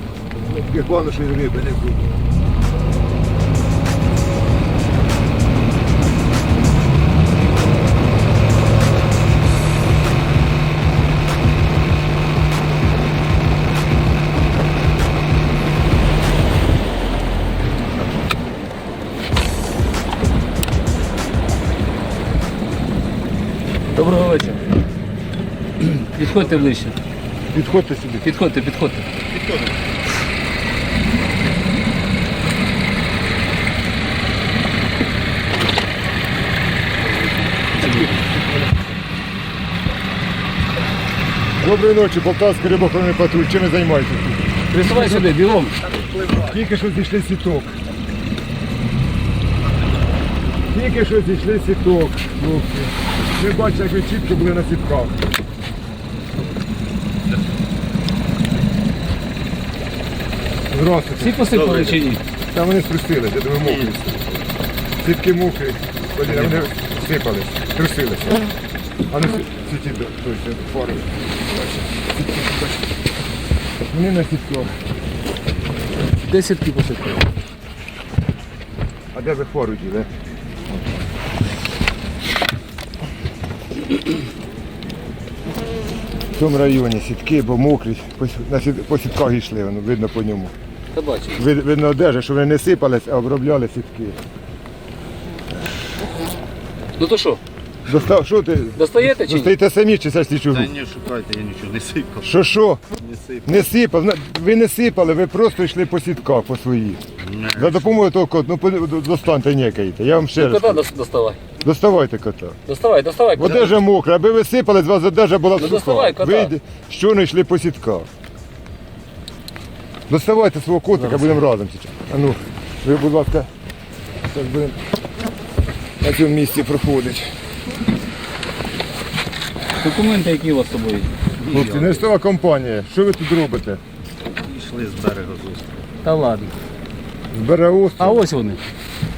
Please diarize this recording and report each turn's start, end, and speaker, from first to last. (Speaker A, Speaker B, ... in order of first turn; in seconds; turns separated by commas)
Speaker A: 0.5-2.0, Speaker B: 23.9-24.6, Speaker B: 25.8-26.9, Speaker A: 27.5-28.3, Speaker B: 28.2-29.0, Speaker C: 29.2-29.7, Speaker B: 37.1-38.1, Speaker A: 41.6-44.4, Speaker B: 44.7-45.8, Speaker A: 44.9-45.2, Speaker C: 46.1-46.4, Speaker A: 46.4-47.8, Speaker A: 50.7-55.3, Speaker A: 60.7-61.5, Speaker B: 61.2-62.2, Speaker C: 61.5-62.1, Speaker A: 62.5-64.1, Speaker C: 63.6-64.4, Speaker A: 65.0-68.4, Speaker A: 69.1-72.6, Speaker A: 73.9-74.7, Speaker B: 76.2-77.3, Speaker A: 79.1-80.1, Speaker A: 86.3-90.5, Speaker B: 90.9-91.4, Speaker A: 91.3-94.2, Speaker B: 97.0-97.4, Speaker A: 97.8-100.7, Speaker B: 98.8-99.5, Speaker C: 100.5-102.3, Speaker A: 102.2-102.8, Speaker C: 102.9-103.6, Speaker A: 103.4-107.0, Speaker C: 107.2-108.0, Speaker A: 107.5-110.8, Speaker B: 110.3-111.4, Speaker A: 111.6-112.6, Speaker B: 112.7-113.8, Speaker A: 113.3-118.1, Speaker B: 115.5-116.5, Speaker A: 120.1-123.5, Speaker A: 124.2-124.8, Speaker A: 126.0-127.3, Speaker B: 129.8-131.1, Speaker C: 131.4-132.0, Speaker A: 131.5-133.8, Speaker C: 134.4-135.8, Speaker B: 136.0-136.5, Speaker A: 137.3-138.2, Speaker B: 138.0-138.6